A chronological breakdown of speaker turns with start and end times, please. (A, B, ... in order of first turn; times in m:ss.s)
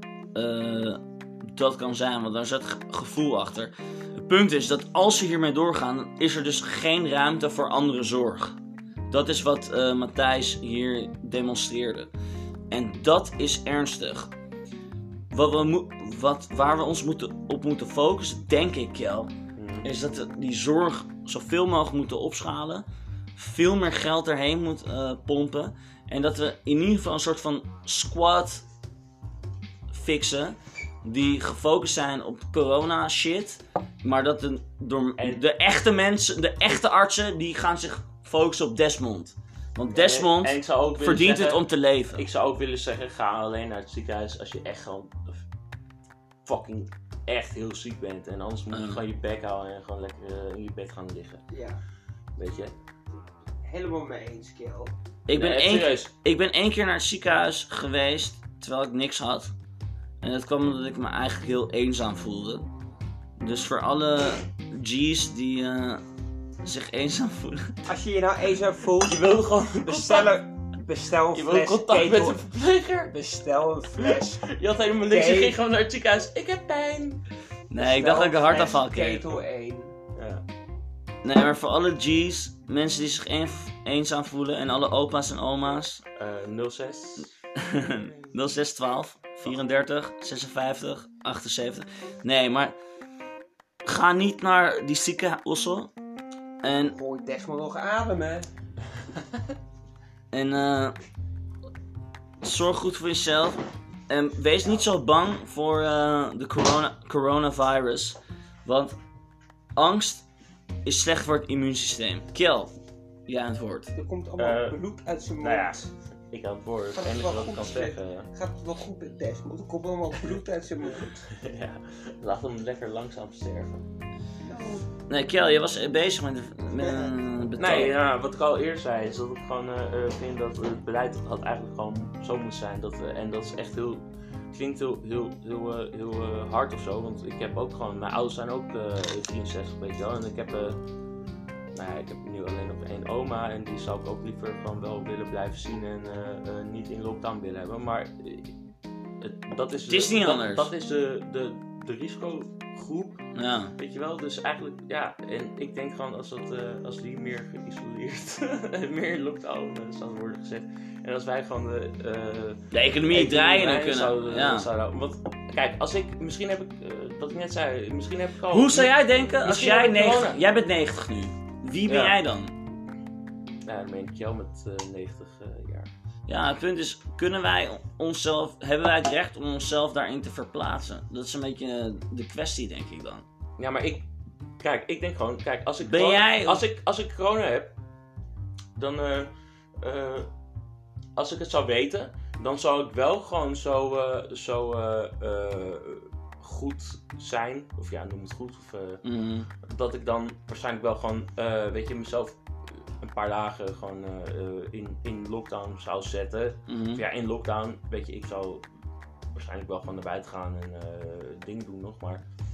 0:00.4-0:08.6 A
0:09.1-0:12.1 A
0:12.7-0:14.3 A
0:15.3-0:28.6 A
0:19.6-0:19.9 B
0:29.9-0:42.2 A
0:39.9-0:45.4 B
0:46.4-0:51.4 B
0:48.7-0:49.0 A
0:51.5-0:51.8 C
0:52.4-0:52.7 B
0:53.6-0:54.9 C
0:55.3-0:59.5 A
0:55.3-0:56.1 B
1:00.2-1:02.7 A
1:03.4-1:06.0 A
1:06.6-1:07.8 A
1:07.9-1:09.3 C
1:09.0-1:10.4 B
1:09.8-1:12.4 C
1:11.3-1:13.1 B
1:13.1-1:14.5 C
1:14.0-1:17.2 B
1:15.1-1:15.6 C
1:17.7-1:19.2 A
1:17.8-1:19.9 C
1:20.2-1:20.4 B
1:21.2-1:26.0 A
1:26.2-1:28.4 B
1:27.6-1:32.8 A
1:33.8-1:35.9 A
1:36.6-1:37.0 A
1:36.8-1:38.5 C
1:40.3-1:41.0 A
1:42.4-1:49.0 A
1:49.8-1:50.3 A
1:50.8-1:52.7 A
1:53.3-1:53.9 A
1:53.9-1:55.8 C
1:54.4-1:54.8 B
1:55.4-1:58.3 B
1:56.9-2:01.2 C
2:01.3-2:03.8 B
2:04.4-2:04.9 C
2:05.1-2:08.0 A
2:06.8-2:07.1 C
2:07.6-2:20.8 B
2:21.8-2:28.5 B
2:29.2-2:33.2 B
2:29.9-2:30.7 A
2:33.3-2:33.8 A
2:33.8-2:50.4 B
2:42.7-2:44.7 A
2:48.5-2:52.5 A
2:51.9-2:52.2 B
2:53.6-2:55.9 B
2:56.3-3:03.2 A
3:03.6-3:04.1 B
3:04.6-3:07.7 B
3:05.8-3:06.6 A
3:08.8-3:10.3 B
3:11.2-3:19.0 B
3:19.0-3:19.5 A
3:19.6-3:22.4 B
3:23.0-3:28.6 B
3:26.7-3:27.0 A
3:29.3-3:32.2 B